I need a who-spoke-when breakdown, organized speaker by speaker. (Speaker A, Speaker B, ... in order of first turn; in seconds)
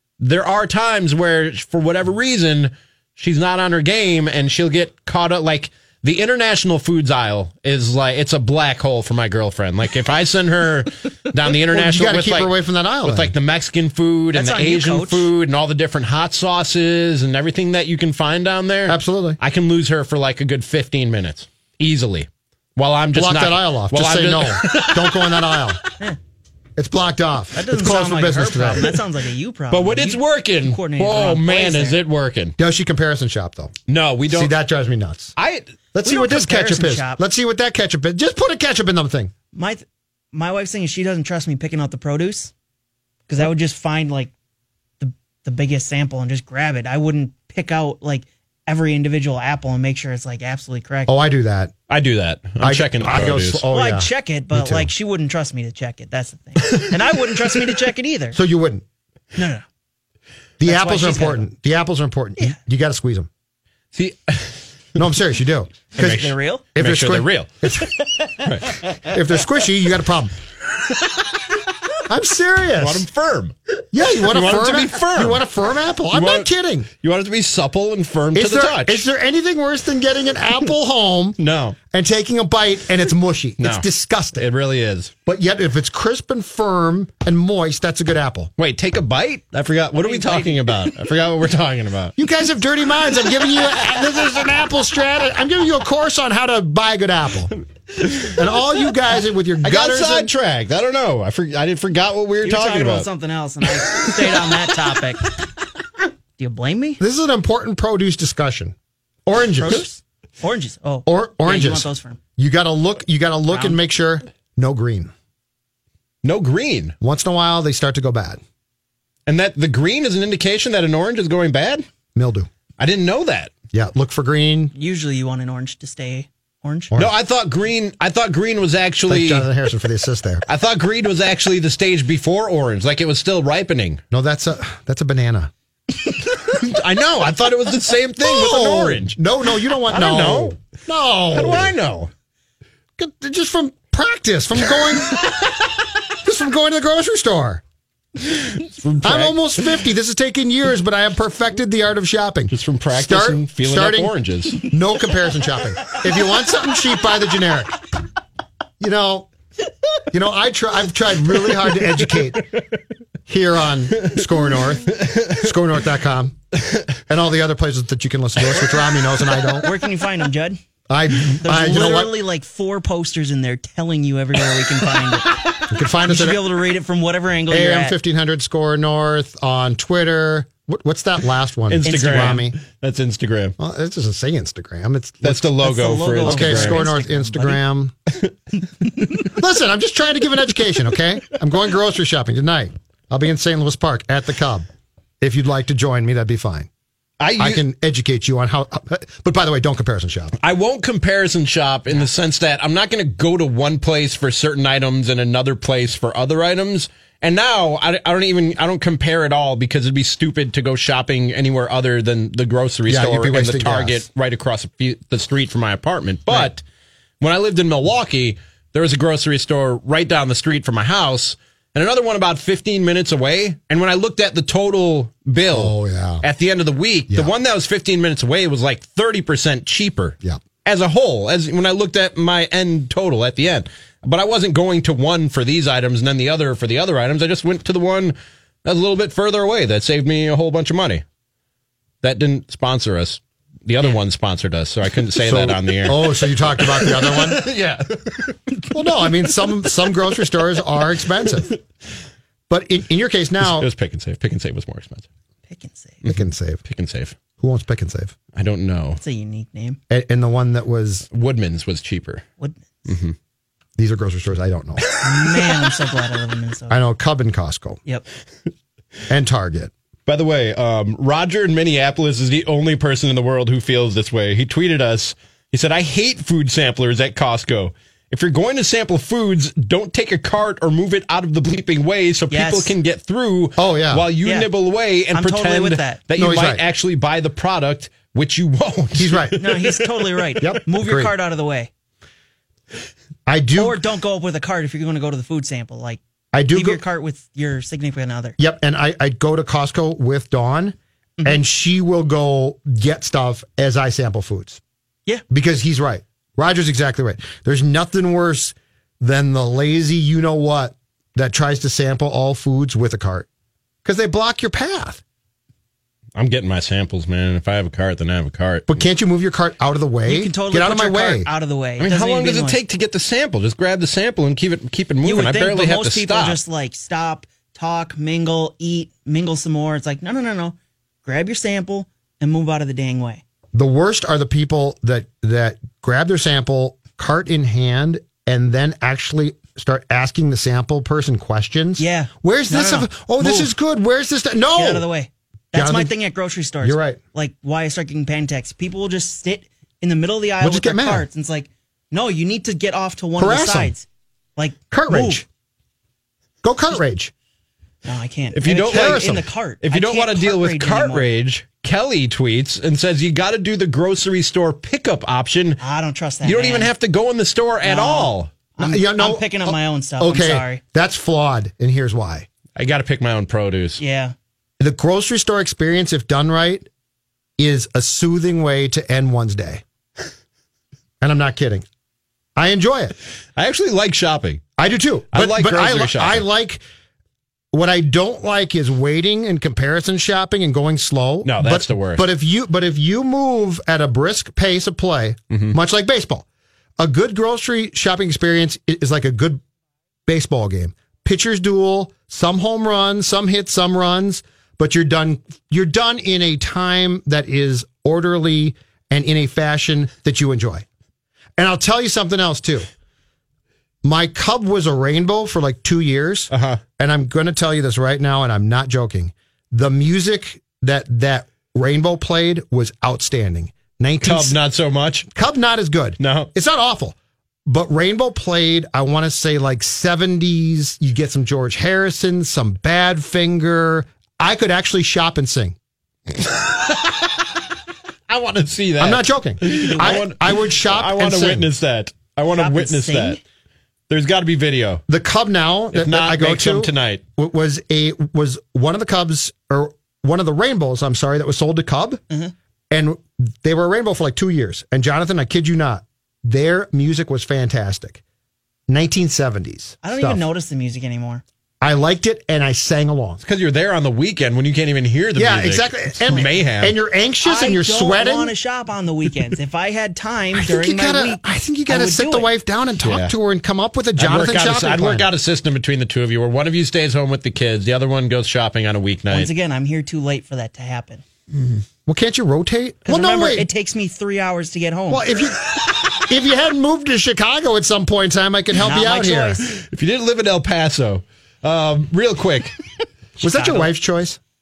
Speaker A: 0.2-12.5, 13.0-25.7, 29.7-32.5, 33.9-34.5, 35.4-35.7, 51.9-53.6, 63.9-64.6, 66.0-67.5, 68.4-68.8, 72.8-73.5, 74.2-75.4, 76.1-76.5, 77.0-79.0, 81.4-81.8, 83.6-83.8, 84.3-85.1, 88.6-92.2, 98.0-98.4, 99.6-103.1, 103.9-104.5, 116.2-116.9, 119.3-121.8, 122.8-123.5, 126.9-129.4, 130.5-134.0, 136.2-139.2, 139.9-140.6, 141.3-142.1, 148.3-149.7, 152.5-154.6, 164.0-164.2, 164.9-165.5, 181.7-183.6, 185.2-186.8, 197.2-197.6, 200.4-216.6, 217.2-241.0, 242.0-248.7, 253.4-255.1, 256.0-257.1, 258.3-259.0, 261.1-262.2, 262.9-263.1, 270.1-290.4, 316.1-318.7, 321.8-326.4, 358.3-359.1, 359.6-365.6, 366.2-368.3, 372.6-373.8, 383.4-384.4, 385.1-386.2, 391.2-392.0, 395.3-395.5, 416.3-416.6, 424.0-425.1, 426.0-426.3, 436.2-437.2, 438.1-443.2, 443.9-444.8, 445.7-447.0, 463.2-466.8, 472.8-473.1, 474.0-479.3, 489.5-492.6
Speaker B: 11.7-13.3, 18.9-19.4, 23.1-25.8, 26.8-28.9, 32.6-33.7, 34.3-35.3, 35.9-39.3, 51.1-51.7, 52.6-54.9, 58.3-58.8, 60.6-63.3, 65.0-68.0, 69.0-70.3, 72.1-73.1, 73.9-76.9, 78.3-81.4, 81.9-84.5, 85.2-88.5, 92.2-97.5, 98.2-100.3, 107.0-108.7, 109.2-109.8, 111.0-115.1, 117.0-118.4, 122.1-122.5, 123.7-124.7, 129.1-130.4, 134.1-135.5, 138.2-141.7, 143.0-145.5, 146.1-147.6, 149.0-157.8, 158.8-159.3, 160.1-162.5, 163.3-166.4, 167.1-169.7, 170.9-172.1, 175.7-176.4, 177.5-182.6, 183.6-185.5, 186.2-187.9, 189.1-194.7, 195.2-196.7, 197.4-200.3, 212.9-214.0, 225.5-226.2, 245.2-247.5, 248.7-251.5, 252.5-253.7, 256.1-256.6, 257.4-258.1, 259.9-261.1, 263.8-264.9, 266.7-267.8, 269.1-269.7, 283.6-284.1, 286.1-286.6, 288.9-289.4, 290.4-291.1, 293.2-293.8, 296.3-296.8, 298.4-304.6, 305.3-313.3, 313.8-315.0, 318.7-321.3, 333.5-344.9, 345.5-345.9, 346.6-347.0, 350.4-351.1, 353.2-353.7, 354.7-355.2, 356.4-357.1, 358.6-359.2, 368.6-372.3, 374.6-376.7, 377.4-379.6, 381.0-381.6, 382.4-382.9, 384.6-386.6, 387.5-396.2, 396.8-399.4, 400.1-410.6, 411.4-412.7, 413.8-424.4, 425.1-435.6, 438.8-441.5, 444.9-452.0, 452.7-458.0, 458.7-460.2, 461.6-463.2, 465.1-468.3, 470.3-475.1, 481.9-483.5, 484.9-489.4, 493.2-494.2
Speaker C: 14.3-15.3, 27.5-32.0, 36.0-37.2, 39.5-42.5, 43.3-44.3, 45.0-51.1, 53.7-58.4, 59.4-59.6, 60.6-61.5, 65.9-66.6, 68.0-69.0, 90.0-90.9, 102.4-105.3, 106.4-107.0, 109.5-112.2, 113.5-113.8, 124.7-126.9, 169.6-170.6, 171.4-177.9, 181.8-182.4, 185.6-187.6, 255.5-256.0, 259.0-259.8, 262.4-262.6, 265.0-266.8, 282.3-282.7, 284.2-284.5, 285.1-286.0, 289.4-291.7, 293.5-296.0, 296.5-298.4, 320.1-322.6, 325.0-333.2, 341.8-343.5, 344.6-353.9, 354.4-355.2, 357.8-361.1, 365.6-366.7, 367.6-370.6, 373.8-374.1, 439.5-440.0, 442.3-443.2, 459.8-461.2, 467.2-472.3, 479.1-481.0, 482.9-485.0, 488.6-489.5, 493.2-493.7